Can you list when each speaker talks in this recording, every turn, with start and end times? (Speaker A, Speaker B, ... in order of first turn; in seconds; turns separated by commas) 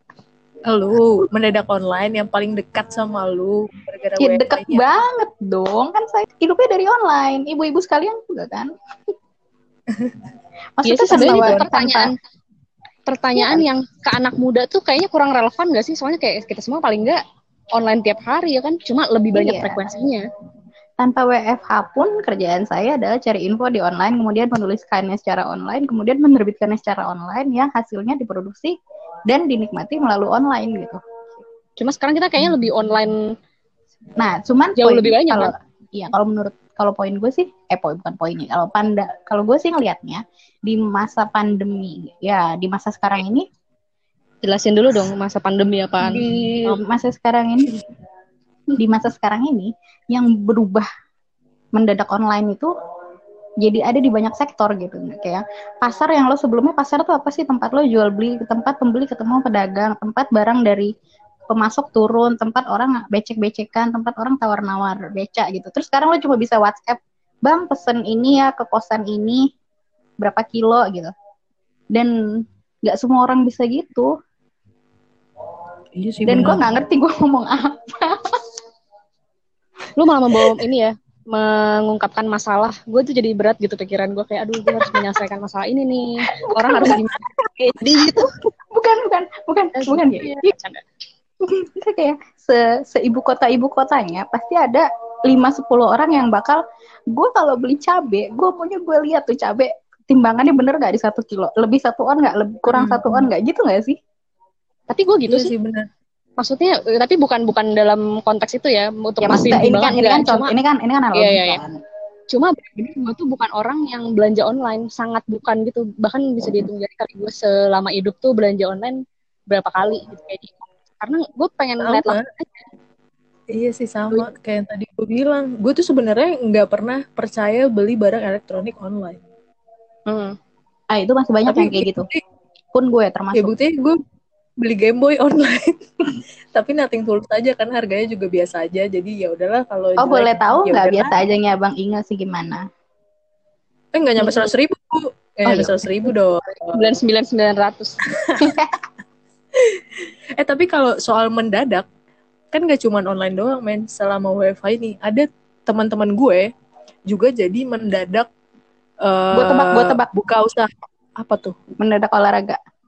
Speaker A: 0.7-4.8, Speaker B: 4.2-8.7, Speaker B: 10.8-12.1, Speaker C: 10.8-12.1, Speaker A: 11.1-11.7, Speaker C: 13.1-17.2, Speaker B: 13.4-13.6, Speaker C: 17.7-20.2, Speaker B: 19.3-19.9, Speaker B: 21.0-28.7, Speaker B: 29.3-31.0, Speaker C: 31.8-33.2, Speaker B: 34.2-43.4, Speaker C: 34.8-35.5, Speaker C: 44.4-46.8, Speaker B: 46.0-47.7, Speaker B: 48.8-50.9, Speaker B: 51.7-52.7, Speaker B: 53.6-60.9, Speaker B: 61.5-69.4, Speaker B: 70.2-71.1, Speaker B: 72.8-74.1, Speaker A: 76.0-76.6, Speaker B: 76.2-78.4, Speaker C: 80.0-87.2, Speaker B: 86.4-87.1, Speaker B: 87.8-90.5, Speaker C: 87.8-88.2, Speaker C: 89.7-90.8, Speaker B: 91.4-96.6, Speaker B: 97.1-104.0, Speaker A: 102.7-103.2, Speaker C: 104.9-105.5, Speaker A: 105.3-105.9, Speaker C: 106.4-110.5, Speaker B: 109.2-111.8, Speaker C: 111.1-111.6, Speaker C: 112.3-119.0, Speaker C: 119.5-122.6, Speaker A: 121.8-122.2, Speaker A: 123.6-129.2, Speaker C: 130.1-130.4, Speaker B: 130.9-132.1, Speaker A: 131.5-132.2, Speaker B: 132.7-133.5, Speaker A: 133.3-134.0, Speaker A: 134.6-135.8, Speaker A: 136.5-141.1, Speaker B: 140.0-142.6, Speaker A: 143.9-146.7, Speaker C: 144.2-144.5, Speaker C: 146.7-147.9, Speaker A: 148.2-148.5, Speaker B: 148.4-148.7, Speaker A: 150.4-151.8, Speaker A: 152.5-156.5, Speaker A: 157.1-158.3, Speaker A: 159.0-161.6, Speaker B: 159.3-160.1, Speaker B: 161.8-162.6